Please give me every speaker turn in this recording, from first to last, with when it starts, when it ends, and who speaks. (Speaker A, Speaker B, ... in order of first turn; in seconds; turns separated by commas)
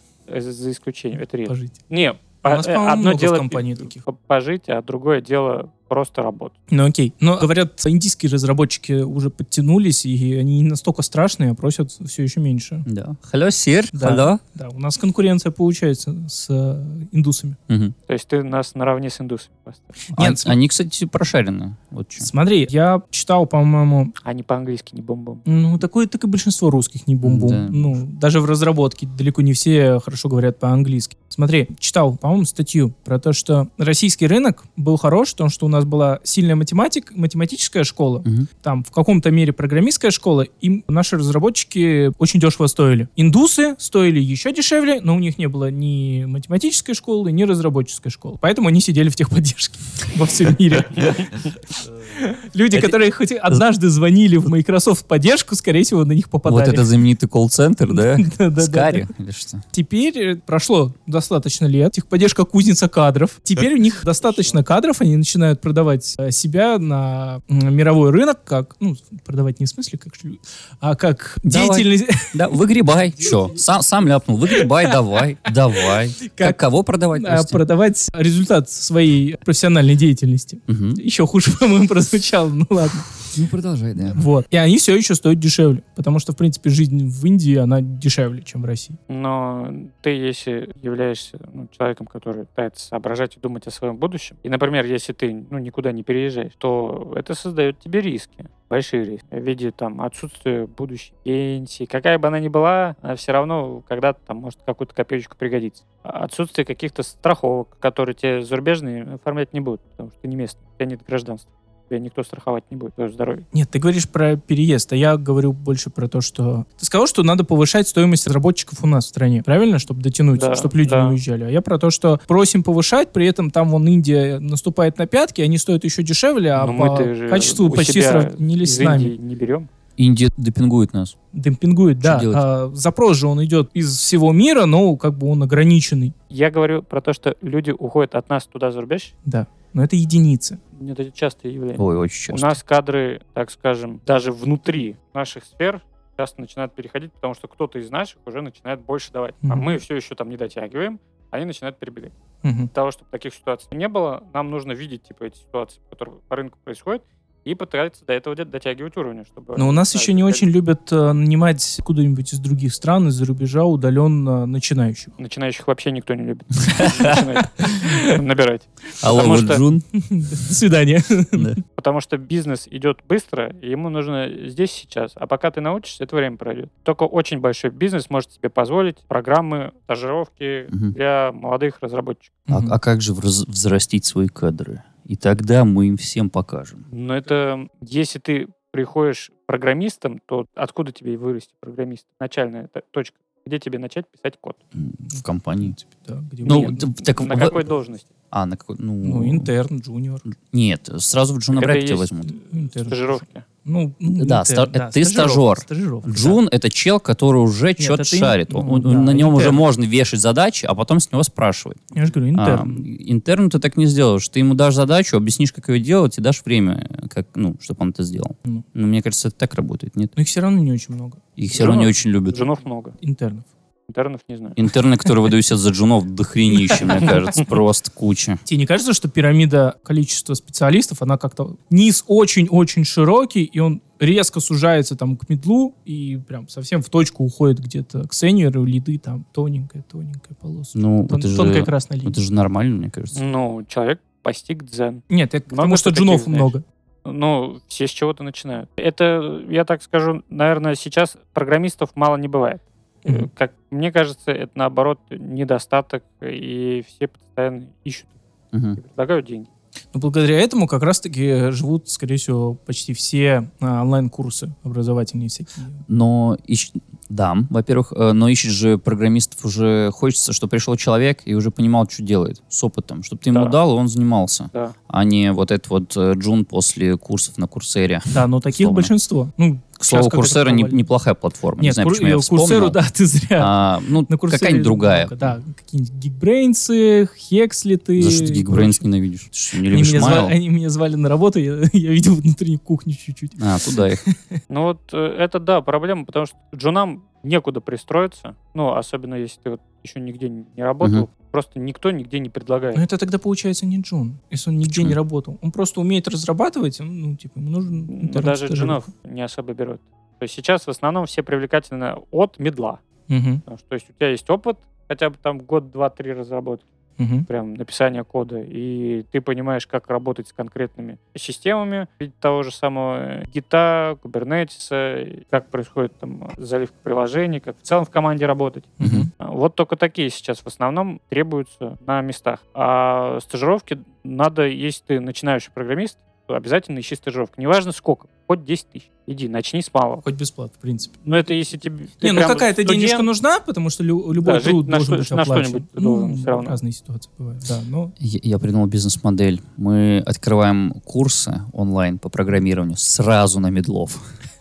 Speaker A: 0.3-6.5, Speaker B: 1.5-1.7, Speaker B: 2.4-4.0, Speaker B: 6.7-12.8, Speaker C: 12.9-14.4, Speaker B: 13.9-17.6, Speaker C: 17.7-17.9, Speaker A: 18.1-19.9, Speaker B: 20.1-20.6, Speaker C: 20.1-22.3, Speaker B: 22.2-24.1, Speaker A: 24.2-25.4, Speaker B: 25.5-51.5, Speaker C: 27.2-27.9, Speaker B: 52.1-56.9, Speaker C: 56.5-59.6, Speaker B: 57.9-59.1, Speaker B: 59.7-72.4, Speaker C: 71.5-77.6, Speaker B: 74.5-76.6, Speaker B: 77.1-83.2, Speaker C: 80.7-81.0, Speaker C: 83.3-84.2, Speaker B: 84.1-89.0, Speaker A: 89.1-113.4, Speaker B: 113.5-129.1, Speaker A: 120.3-121.2, Speaker A: 126.5-129.7, Speaker C: 130.0-131.1, Speaker B: 131.3-136.1, Speaker C: 132.0-132.4, Speaker A: 136.3-139.1, Speaker B: 139.2-140.6, Speaker A: 140.7-152.1, Speaker C: 141.8-142.6, Speaker B: 149.4-149.7, Speaker B: 152.4-152.7, Speaker A: 152.7-160.4, Speaker B: 159.6-165.1, Speaker A: 165.2-169.6, Speaker C: 166.7-167.2, Speaker B: 167.8-168.1, Speaker C: 169.0-169.8, Speaker B: 170.0-171.6, Speaker A: 171.8-182.4, Speaker B: 182.5-182.7, Speaker C: 182.5-186.8, Speaker A: 186.9-194.6, Speaker C: 194.8-195.8, Speaker B: 195.6-196.9, Speaker C: 196.4-197.6, Speaker A: 196.4-198.1, Speaker C: 198.3-199.5, Speaker B: 199.0-200.2, Speaker C: 200.5-202.3, Speaker A: 201.5-202.1, Speaker B: 202.3-206.4, Speaker A: 202.8-203.4, Speaker C: 204.2-211.8, Speaker B: 207.8-209.6, Speaker B: 211.9-212.8, Speaker C: 212.3-220.1, Speaker B: 220.2-221.2, Speaker C: 221.4-222.4, Speaker A: 221.6-222.9, Speaker B: 223.0-223.4, Speaker A: 223.9-224.6, Speaker C: 224.6-228.4, Speaker B: 226.5-227.2, Speaker B: 228.4-242.2, Speaker C: 240.7-243.2, Speaker A: 243.1-258.1, Speaker B: 245.1-246.6, Speaker C: 258.5-258.8, Speaker A: 258.8-259.5, Speaker B: 259.9-265.8, Speaker C: 265.9-278.9, Speaker A: 273.3-273.6, Speaker B: 278.1-280.9, Speaker C: 279.8-282.8, Speaker B: 281.6-283.6, Speaker C: 283.4-285.4, Speaker B: 284.1-288.9, Speaker C: 288.0-290.3, Speaker B: 289.6-294.4, Speaker C: 293.4-294.0, Speaker A: 294.5-302.8, Speaker B: 302.7-308.8, Speaker C: 304.7-305.0, Speaker A: 307.9-312.8, Speaker B: 313.1-313.4, Speaker A: 313.5-316.6, Speaker B: 317.0-317.3, Speaker A: 317.3-340.0, Speaker B: 328.8-329.1, Speaker C: 328.8-329.1, Speaker B: 340.0-340.9, Speaker A: 341.1-343.1, Speaker B: 342.0-347.9, Speaker A: 344.1-346.6, Speaker C: 348.0-354.0